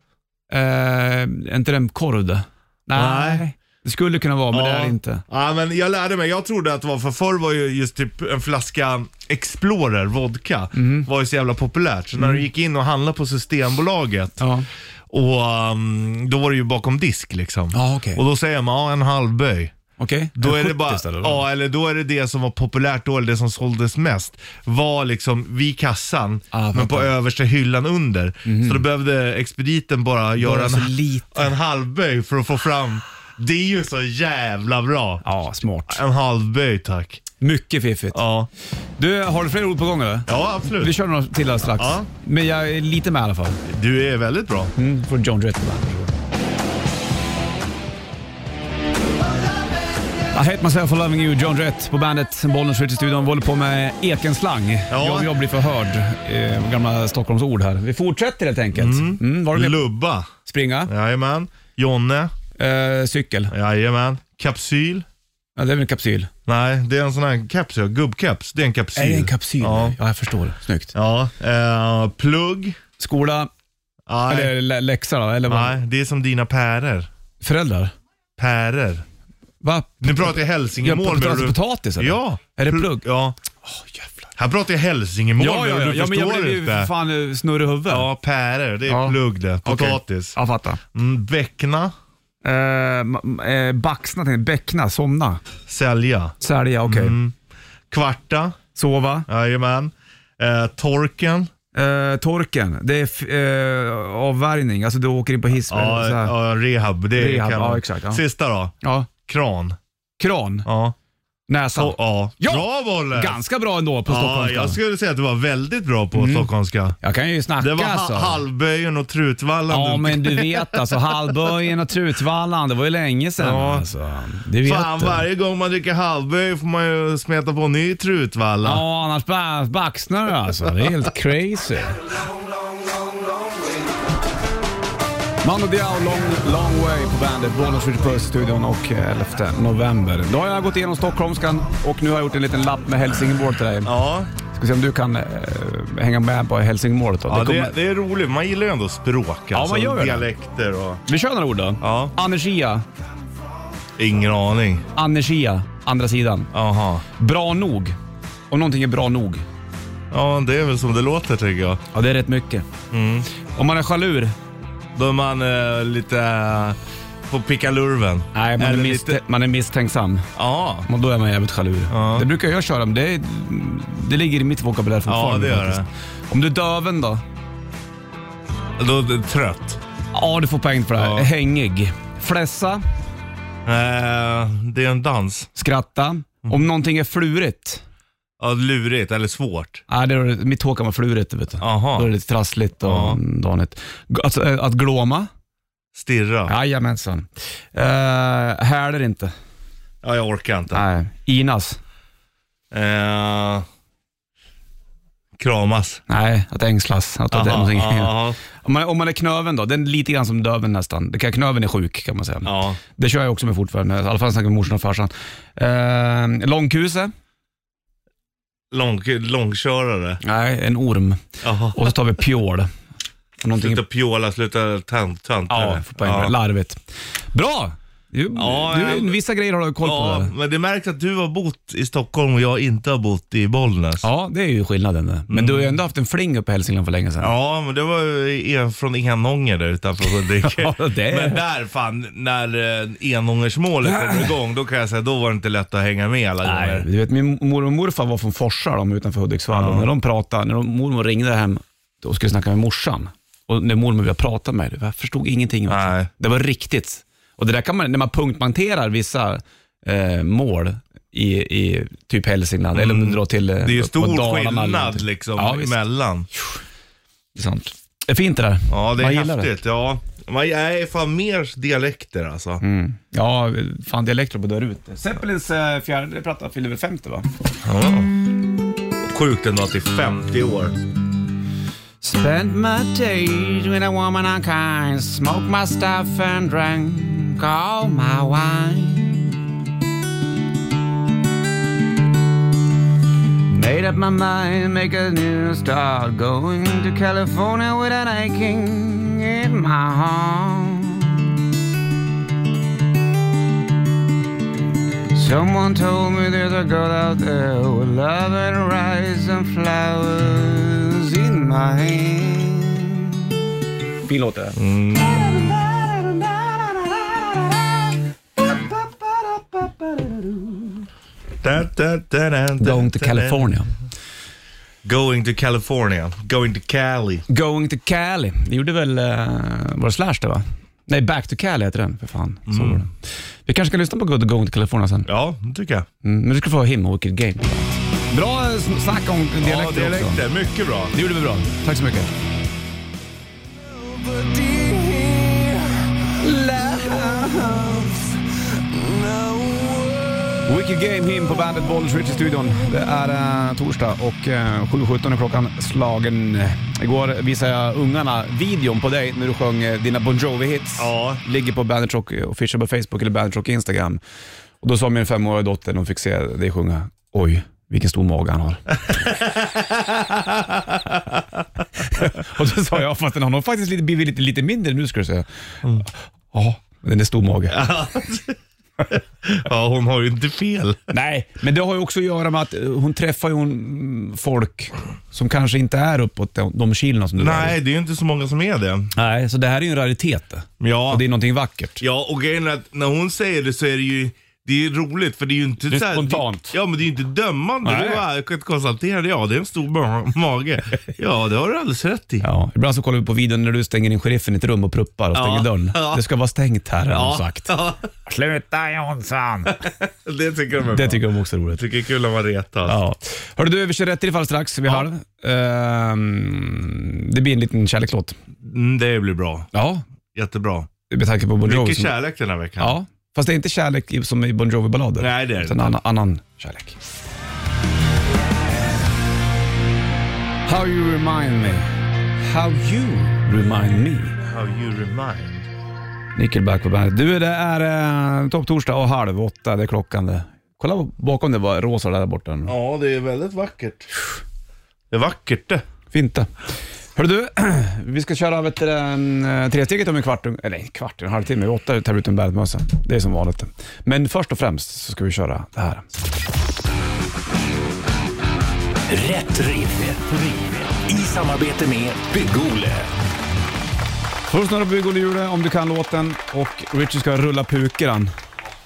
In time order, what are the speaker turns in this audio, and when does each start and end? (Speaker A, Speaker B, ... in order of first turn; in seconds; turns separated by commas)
Speaker A: 0.5-5.2, Speaker B: 2.9-3.4, Speaker B: 4.5-14.5, Speaker A: 10.7-11.1, Speaker A: 12.2-12.4, Speaker A: 14.4-14.7, Speaker B: 15.1-19.7, Speaker A: 17.7-18.2, Speaker A: 20.0-21.4, Speaker B: 20.4-35.2, Speaker A: 26.5-27.1, Speaker A: 28.4-28.8, Speaker A: 30.4-31.5, Speaker A: 35.2-36.0, Speaker B: 35.9-37.2, Speaker A: 37.4-38.2, Speaker B: 38.1-38.5, Speaker A: 39.0-43.6, Speaker B: 40.3-41.0, Speaker B: 41.8-42.1, Speaker B: 43.7-44.7, Speaker A: 44.8-46.1, Speaker A: 50.3-59.8, Speaker B: 54.9-55.3, Speaker B: 58.7-60.3, Speaker A: 60.4-60.9, Speaker B: 60.9-62.3, Speaker A: 62.6-63.5, Speaker B: 63.5-65.0, Speaker A: 65.5-66.3, Speaker B: 66.5-70.0, Speaker A: 69.0-70.9, Speaker B: 70.9-72.8, Speaker A: 73.0-73.5, Speaker B: 74.1-74.5, Speaker A: 74.3-75.8, Speaker B: 75.5-77.1, Speaker A: 77.4-77.9, Speaker B: 78.4-79.0, Speaker A: 79.6-83.0, Speaker B: 80.0-83.3, Speaker A: 83.7-84.3, Speaker B: 84.3-86.9, Speaker A: 85.4-88.1, Speaker B: 87.9-90.3, Speaker A: 88.9-90.8, Speaker B: 90.9-91.9, Speaker A: 92.4-95.4, Speaker B: 95.7-97.3, Speaker A: 96.4-97.2, Speaker B: 97.9-98.6, Speaker A: 98.7-99.3, Speaker B: 99.3-101.5, Speaker A: 101.7-106.3, Speaker B: 105.7-109.8, Speaker A: 107.1-108.2, Speaker A: 108.8-109.1, Speaker A: 110.2-110.7, Speaker B: 110.6-110.9, Speaker A: 111.5-114.8, Speaker B: 111.7-113.4, Speaker B: 114.0-117.0, Speaker A: 116.1-116.5, Speaker A: 117.0-118.4, Speaker B: 117.6-121.3, Speaker A: 119.7-125.2, Speaker B: 123.4-123.9, Speaker B: 124.6-128.8, Speaker A: 128.6-132.0, Speaker A: 135.4-143.9, Speaker B: 143.8-144.3, Speaker A: 144.5-147.7, Speaker B: 147.3-151.0, Speaker A: 149.5-150.2, Speaker A: 151.1-152.8, Speaker B: 151.8-152.1, Speaker B: 154.0-154.8, Speaker A: 154.9-156.5, Speaker B: 156.5-157.0, Speaker A: 157.2-157.9, Speaker A: 158.5-159.4, Speaker B: 160.1-161.8, Speaker A: 161.9-162.7, Speaker B: 162.9-163.3, Speaker A: 163.4-164.3, Speaker B: 164.9-169.2, Speaker A: 168.3-170.3, Speaker B: 170.3-170.9, Speaker A: 170.8-177.2, Speaker B: 171.9-172.3, Speaker B: 175.1-175.9, Speaker B: 178.8-179.8, Speaker A: 180.1-182.8, Speaker B: 180.9-181.3, Speaker B: 183.7-185.5, Speaker A: 185.6-187.8, Speaker B: 188.4-189.8, Speaker A: 189.9-195.3, Speaker B: 191.6-192.1, Speaker B: 192.8-193.2, Speaker B: 195.9-196.5, Speaker A: 196.5-199.3, Speaker B: 200.0-200.8, Speaker A: 200.7-201.8, Speaker B: 202.7-203.6, Speaker B: 205.4-206.0, Speaker A: 206.1-217.1, Speaker B: 207.3-208.4, Speaker B: 212.4-212.8, Speaker B: 218.7-220.2, Speaker A: 220.2-222.7, Speaker B: 221.4-221.9, Speaker A: 223.4-223.8, Speaker B: 223.5-226.3, Speaker A: 225.5-226.8, Speaker A: 227.3-230.3, Speaker B: 228.3-229.2, Speaker B: 229.8-234.0, Speaker A: 234.0-237.3, Speaker B: 235.3-235.7, Speaker B: 237.2-246.9, Speaker A: 240.4-241.4, Speaker A: 243.9-244.3, Speaker A: 246.4-265.8, Speaker B: 249.5-249.9, Speaker B: 255.7-256.1, Speaker B: 262.7-266.3, Speaker A: 267.3-269.5, Speaker B: 268.7-272.6, Speaker A: 272.6-277.3, Speaker B: 277.6-278.1, Speaker B: 279.0-280.8, Speaker A: 282.0-289.4, Speaker A: 293.5-301.3, Speaker A: 305.1-313.3, Speaker A: 314.0-317.8, Speaker B: 314.6-315.5, Speaker A: 318.4-320.9, Speaker B: 321.4-323.5, Speaker A: 322.6-323.7, Speaker B: 324.8-327.2, Speaker A: 327.3-335.1, Speaker B: 332.5-332.8, Speaker B: 335.1-335.9, Speaker A: 336.0-340.2, Speaker B: 339.4-340.9, Speaker A: 340.9-342.1, Speaker B: 343.9-345.8, Speaker A: 346.0-348.2, Speaker B: 349.1-349.7, Speaker A: 350.4-364.0, Speaker B: 360.8-361.2, Speaker A: 364.6-368.8, Speaker B: 368.9-371.4, Speaker A: 371.8-375.2, Speaker A: 375.9-377.6, Speaker B: 377.5-380.9, Speaker A: 380.9-387.6, Speaker B: 387.2-388.9, Speaker A: 388.9-391.8, Speaker B: 390.6-391.0, Speaker B: 391.8-402.2, Speaker A: 395.7-396.6, Speaker A: 397.6-398.0, Speaker A: 402.2-407.5, Speaker B: 405.1-406.0, Speaker B: 406.9-407.9, Speaker A: 408.1-409.6, Speaker B: 409.5-411.0, Speaker A: 410.7-411.6, Speaker B: 411.5-412.8, Speaker A: 412.6-418.1, Speaker B: 418.4-419.5, Speaker A: 419.5-419.8, Speaker B: 420.1-420.7, Speaker A: 420.9-421.9, Speaker B: 421.4-422.8, Speaker A: 422.6-426.8, Speaker B: 425.0-425.7, Speaker A: 430.4-434.2, Speaker B: 434.2-435.5, Speaker A: 436.1-442.5, Speaker B: 442.4-443.9, Speaker B: 444.9-445.6, Speaker A: 445.9-446.3, Speaker A: 446.9-455.9, Speaker C: 458.9-462.9, Speaker A: 464.3-468.1